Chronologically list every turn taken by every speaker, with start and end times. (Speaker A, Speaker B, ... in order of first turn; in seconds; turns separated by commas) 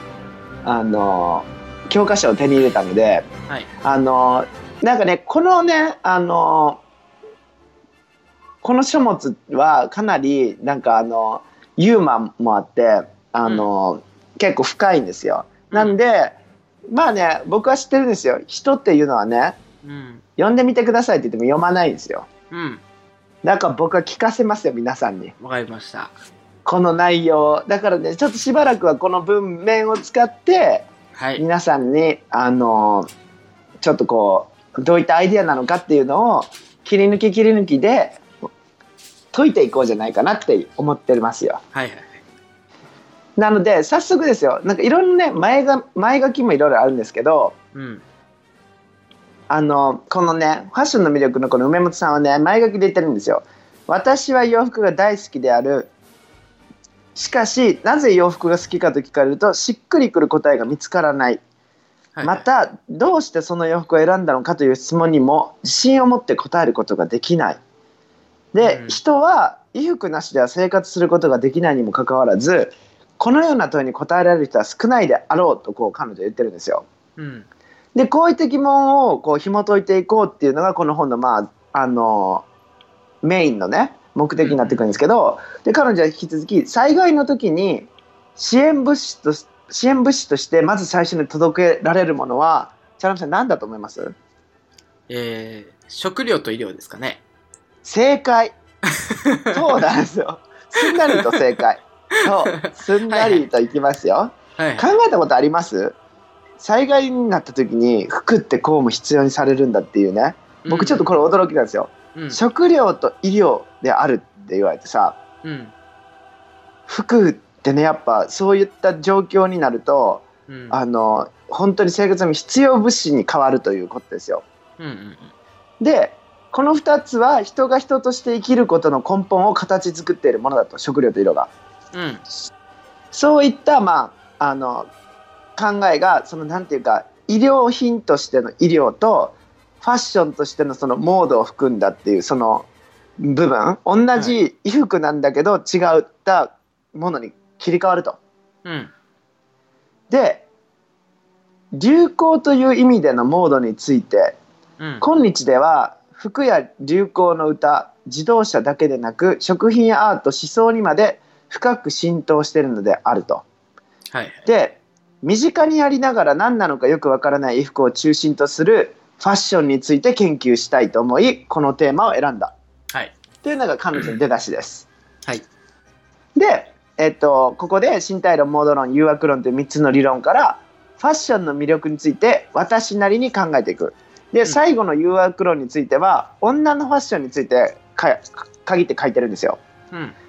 Speaker A: 0.6-3.3, Speaker A: 3.8-6.8, Speaker A: 8.6-16.4, Speaker B: 15.7-16.0, Speaker A: 16.9-19.6, Speaker B: 19.8-20.2, Speaker A: 20.4-22.3, Speaker B: 22.5-22.8, Speaker A: 23.4-25.3, Speaker B: 25.4-26.1, Speaker A: 26.6-33.1, Speaker B: 31.1-31.4, Speaker A: 33.8-38.3, Speaker A: 39.3-41.6, Speaker B: 41.7-42.2, Speaker A: 43.4-47.5, Speaker B: 47.7-48.0, Speaker A: 49.5-55.9, Speaker A: 57.2-61.4, Speaker B: 62.1-62.5, Speaker A: 62.2-67.6, Speaker A: 68.5-76.9, Speaker B: 68.6-69.0, Speaker B: 77.2-77.5, Speaker A: 78.0-82.5, Speaker A: 83.2-94.2, Speaker B: 84.4-85.0, Speaker B: 95.1-97.2, Speaker A: 97.8-98.6, Speaker B: 98.9-99.8, Speaker A: 99.5-106.0, Speaker B: 100.8-101.4, Speaker B: 102.1-103.5, Speaker B: 104.6-105.0, Speaker A: 106.6-115.2, Speaker B: 110.6-111.1, Speaker B: 112.2-112.4, Speaker B: 115.4-115.7, Speaker A: 116.9-124.4, Speaker B: 120.5-120.8, Speaker B: 124.8-125.3, Speaker A: 125.8-131.5, Speaker B: 131.9-132.2, Speaker A: 133.1-134.9, Speaker A: 135.6-142.7, Speaker A: 143.2-148.2, Speaker B: 148.7-148.9, Speaker A: 150.1-150.4, Speaker A: 151.7-154.4, Speaker B: 154.8-155.1, Speaker A: 155.0-163.4, Speaker B: 164.1-164.5, Speaker A: 164.5-172.5, Speaker A: 173.4-174.9, Speaker B: 173.9-174.2, Speaker A: 176.4-189.6